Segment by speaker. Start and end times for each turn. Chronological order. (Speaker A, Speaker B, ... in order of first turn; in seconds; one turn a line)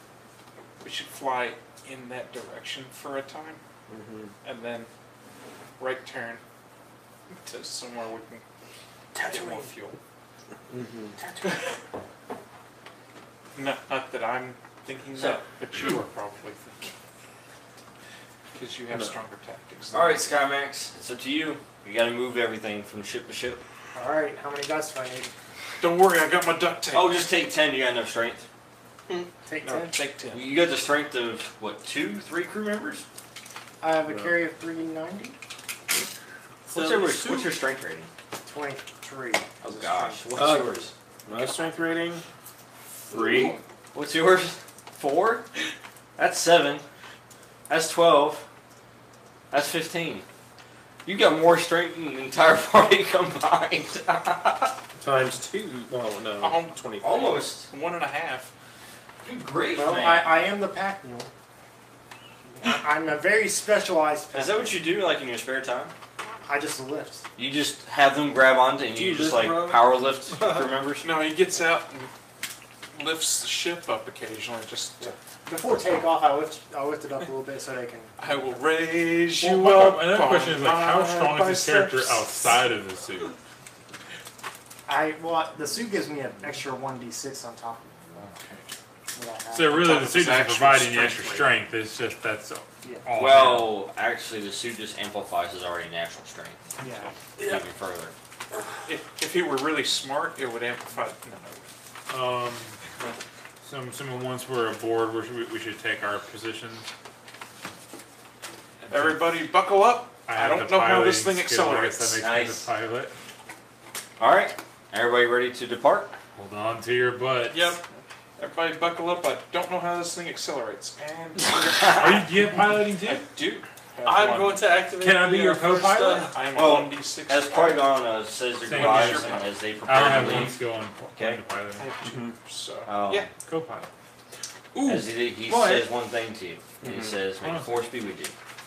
Speaker A: 0.8-3.6
Speaker B: 3.9-4.3
Speaker A: 4.4-4.9
Speaker A: 5.8-6.4
Speaker A: 7.4-8.4
Speaker A: 9.1-10.0
Speaker C: 9.3-9.6
Speaker B: 10.7-11.2
Speaker A: 11.2-11.8
Speaker A: 13.5-16.9
Speaker D: 15.1-15.4
Speaker A: 18.5-20.3
Speaker D: 19.9-23.6
Speaker E: 23.9-25.3
Speaker A: 25.8-27.1
Speaker D: 26.9-28.4
Speaker E: 29.4-29.9
Speaker A: 29.6-30.5
Speaker D: 30.3-33.0
Speaker E: 33.8-35.4
Speaker B: 34.0-34.3
Speaker C: 36.7-37.5
Speaker D: 36.7-38.1
Speaker E: 38.4-40.3
Speaker D: 39.6-40.9
Speaker B: 40.3-42.2
Speaker B: 43.1-43.6
Speaker D: 43.9-45.5
Speaker D: 46.2-46.8
Speaker D: 47.7-48.5
Speaker D: 49.5-50.2
Speaker D: 51.0-54.7
Speaker B: 55.0-57.4
Speaker A: 56.4-57.0
Speaker D: 57.0-57.7
Speaker A: 57.7-58.5
Speaker D: 59.2-60.5
Speaker E: 59.7-61.3
Speaker E: 62.6-64.9
Speaker D: 64.3-65.9
Speaker E: 66.4-67.2
Speaker D: 67.3-71.1
Speaker B: 68.9-70.6
Speaker A: 71.0-72.1
Speaker A: 72.9-75.2
Speaker E: 75.5-78.7
Speaker A: 78.2-82.3
Speaker F: 79.3-83.3
Speaker E: 84.9-88.2
Speaker A: 88.2-88.7
Speaker E: 89.1-89.9
Speaker F: 89.5-93.8
Speaker A: 89.7-91.5
Speaker E: 92.8-93.1
Speaker D: 93.2-96.7
Speaker E: 96.8-97.1
Speaker D: 97.4-98.1
Speaker A: 98.8-101.7
Speaker F: 102.1-102.8
Speaker F: 103.6-106.9
Speaker F: 108.8-109.4
Speaker A: 108.9-112.2
Speaker F: 110.3-113.1
Speaker D: 112.2-112.7
Speaker D: 114.2-116.2
Speaker F: 116.3-117.8
Speaker C: 117.5-117.8
Speaker A: 118.4-122.0
Speaker D: 121.6-122.2
Speaker F: 121.8-123.3
Speaker A: 122.9-124.7
Speaker C: 124.0-126.3
Speaker F: 125.0-126.4
Speaker A: 125.6-127.9
Speaker D: 126.4-131.4
Speaker F: 128.6-131.9
Speaker A: 128.7-130.5
Speaker A: 131.8-133.3
Speaker B: 132.1-132.3
Speaker D: 132.8-133.3
Speaker F: 133.4-133.9
Speaker A: 134.7-135.1
Speaker D: 134.8-138.3
Speaker F: 135.5-135.9
Speaker B: 136.8-137.2
Speaker F: 137.4-137.8